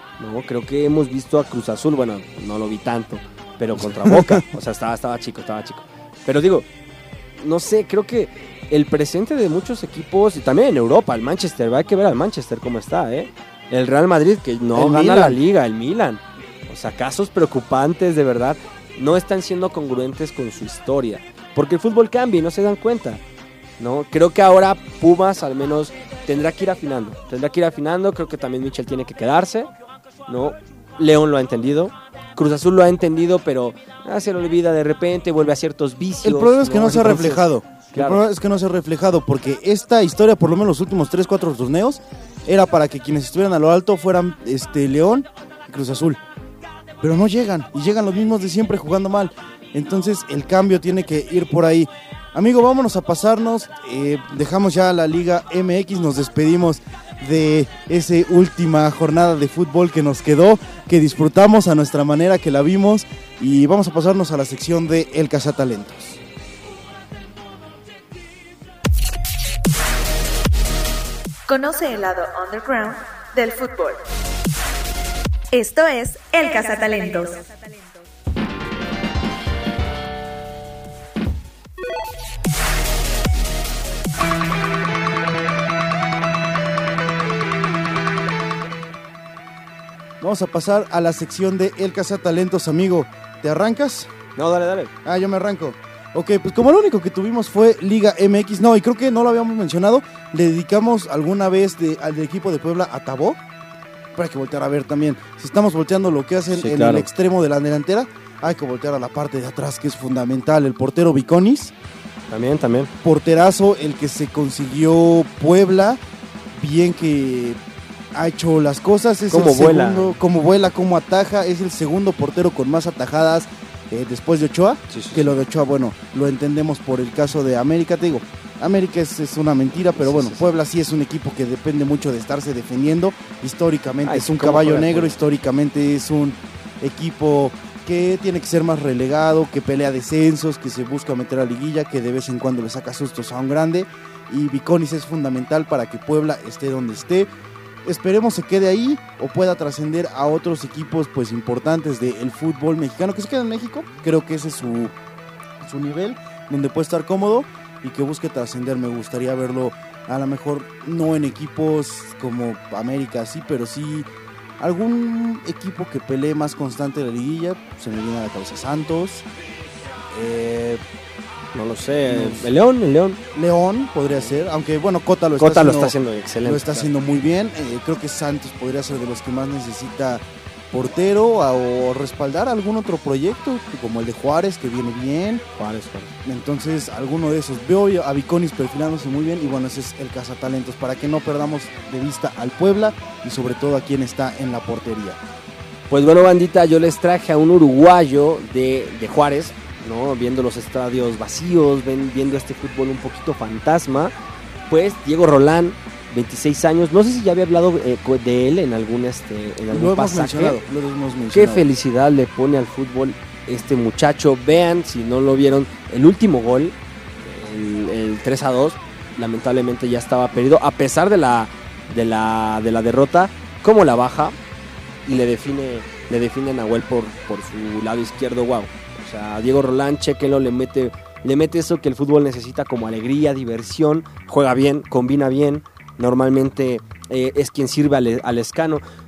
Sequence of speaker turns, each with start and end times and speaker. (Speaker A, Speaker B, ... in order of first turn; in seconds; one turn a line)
Speaker A: 0.2-6.7
Speaker B: 3.8-4.4
Speaker A: 7.4-23.2
Speaker B: 14.7-15.4
Speaker A: 23.8-29.7
Speaker A: 30.3-38.2
Speaker B: 36.2-46.2
Speaker B: 47.0-66.2
Speaker C: 71.5-74.0
Speaker C: 75.5-77.5
Speaker B: 90.2-94.1
Speaker A: 94.3-94.9
Speaker B: 95.0-103.4
Speaker B: 104.2-111.7
Speaker A: 106.5-107.1
Speaker A: 112.3-112.9
Speaker B: 113.0-116.0
Speaker B: 116.5-117.6
Speaker B: 118.1-147.3
Speaker A: 119.3-120.2
Speaker A: 124.9-125.4
Speaker A: 129.9-130.4
Speaker A: 134.0-135.2
Speaker B: 147.8-154.9
Speaker B: 155.6-169.2
Speaker B: 170.1-170.8
Speaker A: 171.5-173.2
Speaker B: 172.1-172.5
Speaker B: 173.3-185.4
Speaker A: 175.4-176.9
Speaker A: 185.6-186.1
Speaker B: 186.2-195.2
Speaker A: 195.9-204.1
Speaker A: 204.7-210.6
Speaker B: 209.7-211.7
Speaker A: 211.3-224.3
Speaker A: 225.1-238.8